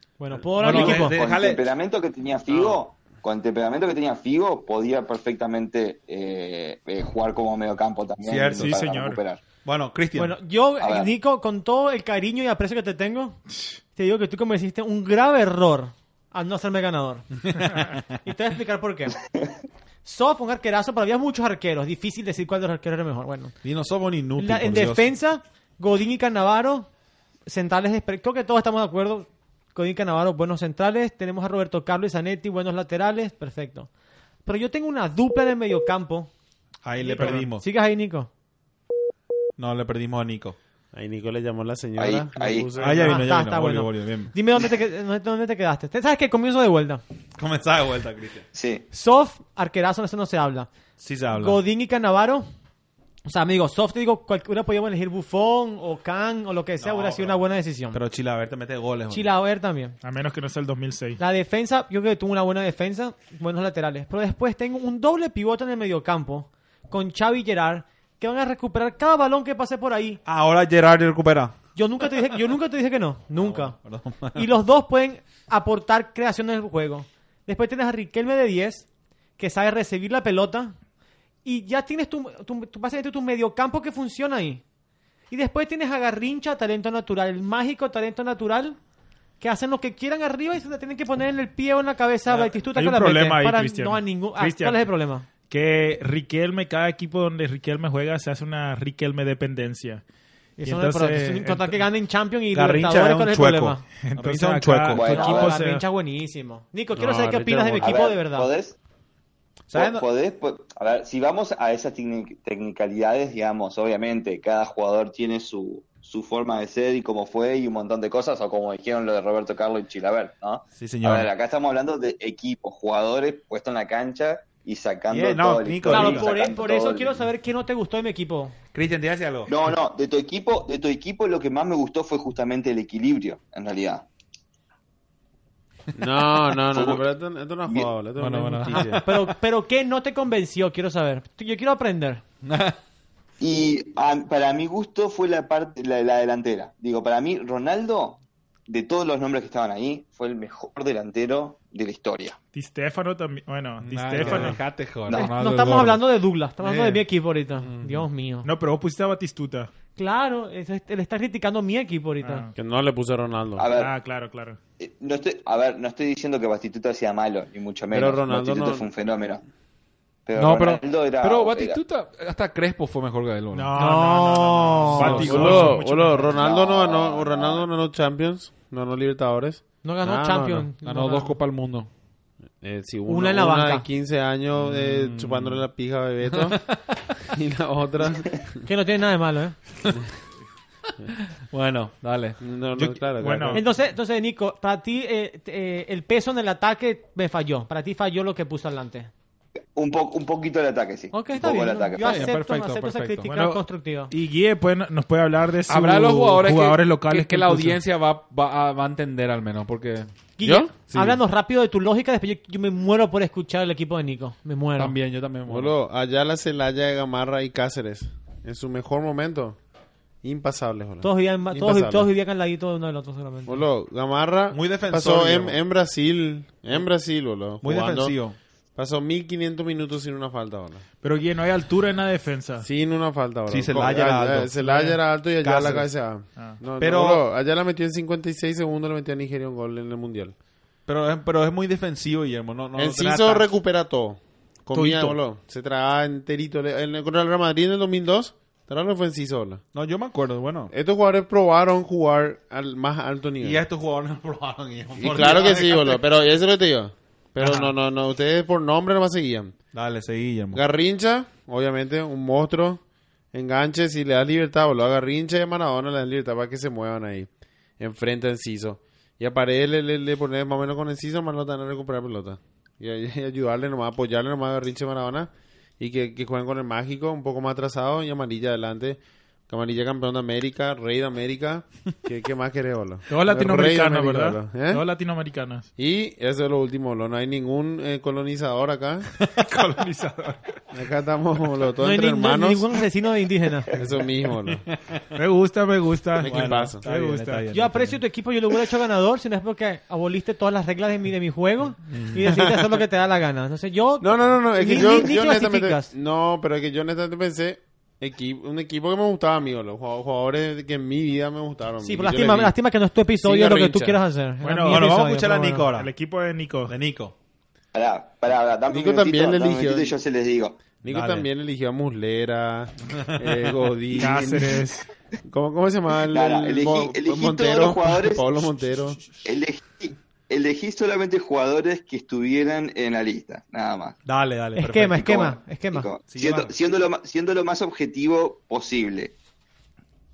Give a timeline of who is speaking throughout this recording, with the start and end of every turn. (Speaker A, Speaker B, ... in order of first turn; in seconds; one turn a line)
Speaker A: 0.2-1.2
Speaker B: 0.6-1.7
Speaker C: 0.6-9.4
Speaker B: 2.5-2.8
Speaker B: 8.2-8.8
Speaker D: 8.5-9.2
Speaker B: 9.6-10.3
Speaker A: 10.2-13.4
Speaker C: 10.8-11.1
Speaker A: 13.9-17.3
Speaker B: 17.5-18.0
Speaker A: 18.2-19.1
Speaker A: 20.0-23.5
Speaker B: 23.6-25.1
Speaker A: 24.4-26.9
Speaker A: 27.5-33.9
Speaker A: 34.5-36.3
Speaker B: 36.8-37.6
Speaker A: 37.0-38.3
Speaker B: 39.6-40.6
Speaker E: 40.9-43.2
Speaker C: 42.0-42.7
Speaker B: 42.8-44.3
Speaker A: 42.9-47.0
Speaker B: 47.4-48.5
Speaker C: 48.5-48.8
Speaker A: 48.9-50.7
Speaker B: 51.0-51.6
Speaker A: 51.3-52.5
Speaker A: 53.2-58.0
Speaker B: 56.8-57.4
Speaker B: 57.9-59.3
Speaker A: 59.1-60.0
Speaker D: 60.0-61.2
Speaker A: 61.2-70.2
Speaker B: 70.2-71.5
Speaker A: 71.8-73.8
Speaker B: 73.4-74.5
Speaker A: 74.3-78.8
Speaker A: 79.4-80.8
Speaker A: 81.4-84.6
Speaker A: 85.3-88.8
Speaker A: 89.4-95.3
Speaker D: 92.6-94.9
Speaker D: 95.5-100.0
Speaker A: 100.6-103.8
Speaker D: 100.6-101.8
Speaker B: 102.5-105.0
Speaker D: 104.0-105.8
Speaker C: 104.9-105.5
Speaker A: 105.0-108.5
Speaker E: 106.9-108.0
Speaker C: 107.8-108.8
Speaker B: 109.7-110.0
Speaker C: 109.7-127.2
Speaker B: 120.8-121.3
Speaker B: 125.1-126.3
Speaker A: 125.8-128.5
Speaker B: 128.7-129.6
Speaker C: 129.5-134.1
Speaker E: 135.9-139.0
Speaker C: 136.7-137.0
Speaker C: 137.7-137.9
Speaker B: 138.2-139.2
Speaker A: 138.7-142.2
Speaker B: 142.4-142.8
Speaker C: 143.4-152.4
Speaker D: 152.5-154.6
Speaker B: 153.8-156.0
Speaker A: 155.1-158.5
Speaker B: 156.6-157.0
Speaker B: 157.6-158.1
Speaker D: 158.4-159.7
Speaker A: 159.9-162.5
Speaker D: 162.2-162.5
Speaker E: 162.5-163.7
Speaker C: 163.6-163.9
Speaker D: 163.7-164.6
Speaker C: 164.8-169.4
Speaker E: 167.9-168.9
Speaker C: 170.2-171.8
Speaker B: 170.3-173.7
Speaker D: 173.5-176.3
Speaker A: 173.8-175.5
Speaker B: 174.9-175.8
Speaker E: 175.0-180.7
Speaker C: 176.2-177.7
Speaker A: 179.8-181.3
Speaker B: 180.8-181.9
Speaker E: 182.6-186.6
Speaker A: 183.1-183.8
Speaker B: 184.5-185.6
Speaker B: 186.3-187.1
Speaker E: 187.3-188.6
Speaker A: 188.7-189.6
Speaker B: 191.5-193.0
Speaker E: 192.4-193.7
Speaker D: 193.2-193.6
Speaker A: 193.5-199.1
Speaker C: 199.8-202.3
Speaker A: 201.1-204.1
Speaker B: 202.0-203.3
Speaker D: 203.3-207.8
Speaker B: 205.7-210.1
Speaker A: 210.4-214.9
Speaker E: 210.4-211.2
Speaker B: 214.8-215.7
Speaker E: 215.5-219.6
Speaker E: 220.2-222.1
Speaker A: 221.0-223.6
Speaker E: 223.4-228.2
Speaker B: 224.5-225.6
Speaker B: 227.6-228.4
Speaker E: 228.8-230.8
Speaker D: 231.0-232.7
Speaker E: 232.6-240.3
Speaker B: 233.5-235.9
Speaker B: 236.8-237.2
Speaker B: 240.9-243.5
Speaker E: 242.8-249.6
Speaker B: 249.7-250.7
Speaker E: 250.7-253.6
Speaker B: 253.4-256.0
Speaker E: 255.0-259.5
Speaker B: 257.4-257.7
Speaker B: 259.7-260.6
Speaker E: 260.5-262.8
Speaker E: 263.3-284.8
Speaker D: 283.1-285.7
Speaker E: 285.8-289.1
Speaker D: 289.3-290.5
Speaker E: 290.7-292.7
Speaker A: 291.8-293.7
Speaker E: 293.8-294.6
Speaker B: 294.7-295.0
Speaker D: 295.1-297.4
Speaker E: 296.2-296.8
Speaker B: 296.2-298.0
Speaker A: 297.5-305.9
Speaker B: 301.9-302.2
Speaker E: 304.0-312.5
Speaker A: 311.8-315.7
Speaker E: 313.2-314.0
Speaker D: 314.4-315.0
Speaker B: 314.6-315.9
Speaker D: 315.7-316.7
Speaker B: 316.7-317.1
Speaker C: 317.7-320.6
Speaker E: 318.7-319.9
Speaker E: 320.8-324.6
Speaker B: 320.9-321.3
Speaker B: 323.0-323.6
Speaker D: 324.0-324.9
Speaker E: 325.3-329.1
Speaker C: 326.1-328.4
Speaker C: 329.2-334.0
Speaker B: 334.0-335.2
Speaker A: 334.6-335.9
Speaker C: 335.0-339.1
Speaker B: 336.1-336.5